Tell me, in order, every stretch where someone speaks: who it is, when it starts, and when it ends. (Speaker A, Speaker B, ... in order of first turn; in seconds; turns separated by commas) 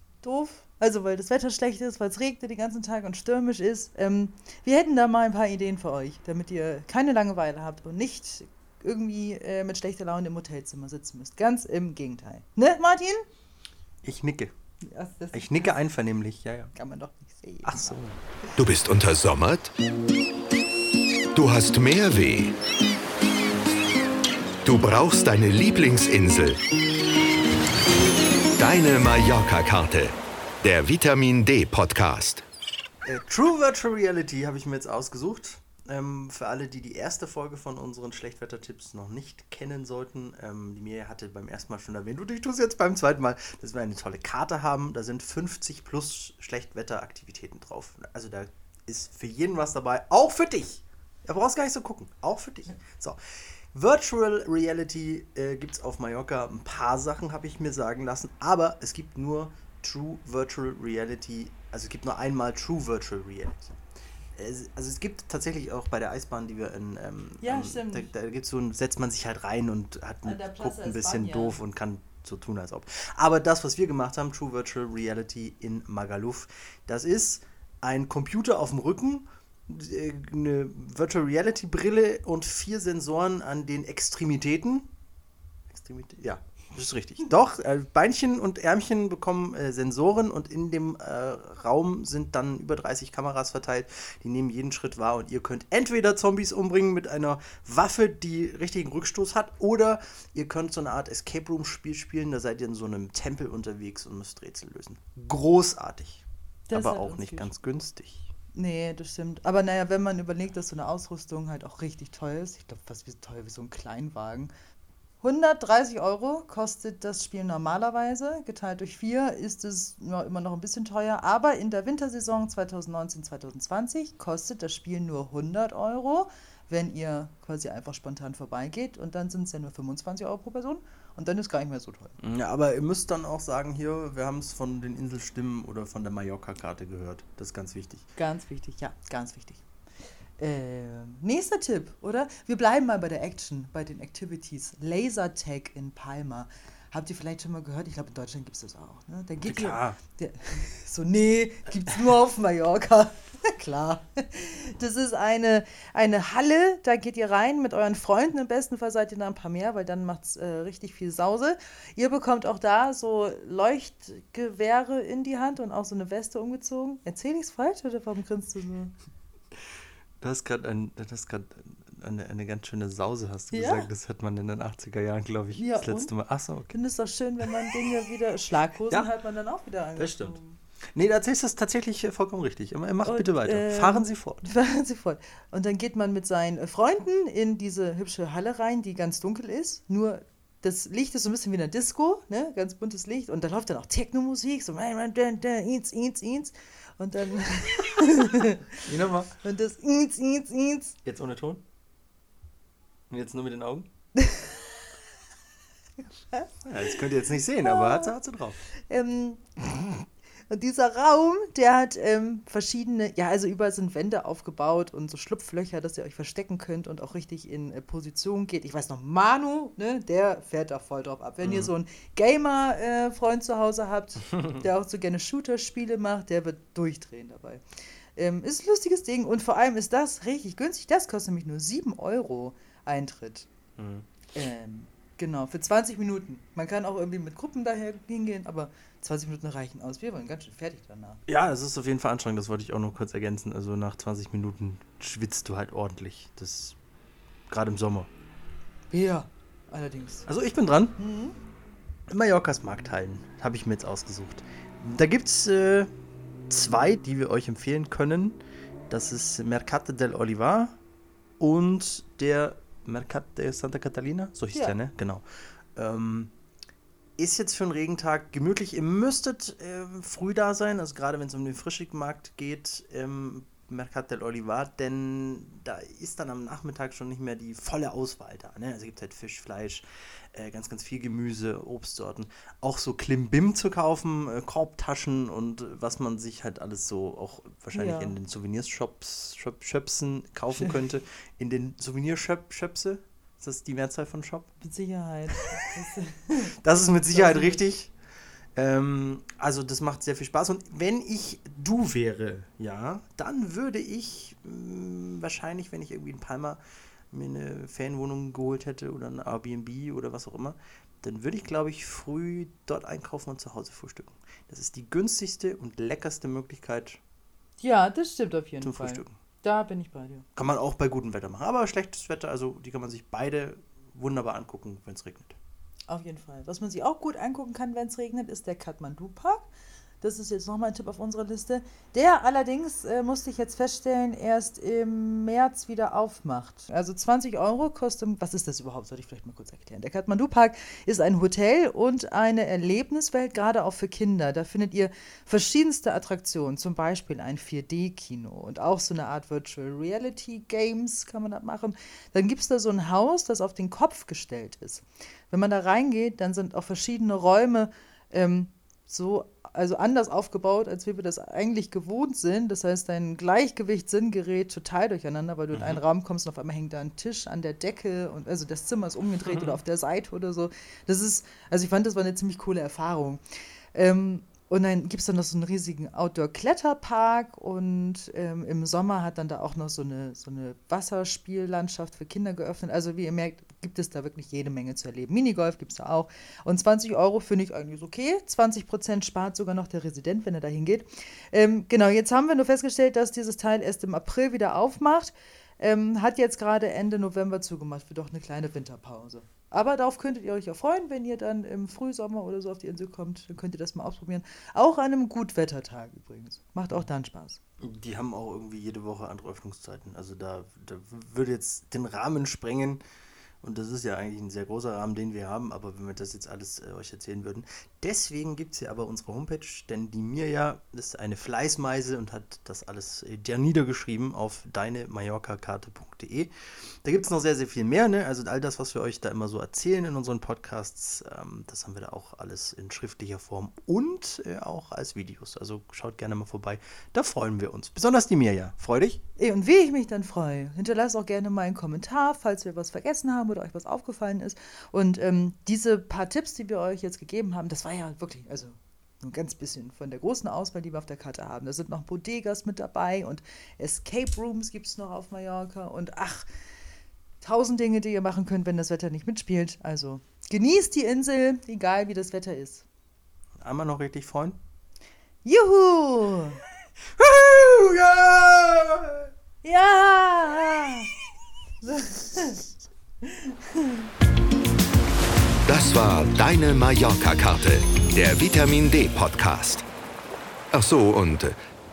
Speaker A: 0.2-13.2, Speaker B: 14.0-14.5, Speaker A: 14.8-15.8, Speaker B: 15.3-16.7, Speaker A: 16.7-18.0, Speaker B: 17.6-18.2, Speaker C: 18.6-19.7, Speaker C: 21.3-22.6, Speaker C: 24.6-26.6, Speaker C: 28.6-32.4, Speaker B: 33.0-53.2, Speaker B: 53.7-63.8, Speaker B: 64.3-84.9, Speaker A: 67.4-68.1, Speaker A: 70.2-71.6, Speaker B: 85.7-108.3, Speaker A: 106.7-107.5, Speaker A: 108.5-114.5, Speaker A: 115.2-132.2, Speaker B: 132.2-138.1, Speaker A: 138.2-139.6, Speaker A: 140.4-168.9, Speaker B: 149.4-150.0, Speaker B: 170.2-176.8, Speaker A: 173.5-173.9, Speaker A: 175.5-176.1, Speaker A: 176.7-180.6, Speaker B: 179.9-180.4, Speaker B: 180.9-184.5, Speaker A: 183.0-198.8, Speaker B: 198.8-199.4, Speaker A: 199.4-200.9, Speaker B: 201.0-201.6, Speaker B: 203.1-203.9, Speaker A: 204.2-204.6, Speaker A: 206.0-206.5, Speaker B: 206.6-208.6, Speaker A: 207.6-208.1, Speaker A: 208.9-209.9, Speaker A: 210.5-227.6, Speaker B: 221.4-221.7, Speaker A: 228.2-233.5, Speaker B: 233.8-234.1, Speaker A: 234.3-241.2, Speaker B: 241.3-246.8, Speaker B: 247.5-248.1, Speaker A: 248.9-250.3, Speaker B: 250.2-251.0, Speaker A: 251.0-251.4, Speaker B: 252.1-255.9, Speaker B: 256.5-260.8, Speaker B: 261.4-265.2, Speaker B: 265.8-266.3, Speaker B: 267.2-294.5, Speaker A: 287.7-288.2, Speaker A: 294.6-297.6, Speaker B: 296.6-297.9, Speaker B: 298.5-317.0, Speaker A: 317.6-320.2, Speaker B: 318.6-319.2, Speaker B: 320.4-325.4, Speaker A: 325.9-329.5, Speaker A: 330.0-373.2, Speaker B: 365.5-365.8, Speaker B: 369.3-369.6, Speaker A: 373.7-407.4, Speaker B: 407.6-412.8, Speaker B: 413.4-426.3, Speaker B: 426.8-439.0, Speaker A: 439.2-456.3, Speaker A: 457.2-462.6, Speaker B: 463.4-464.4, Speaker A: 465.2-466.4, Speaker B: 467.0-469.1, Speaker A: 469.4-470.9, Speaker A: 471.6-472.4, Speaker A: 473.0-473.9, Speaker C: 475.4-479.6, Speaker C: 480.5-481.4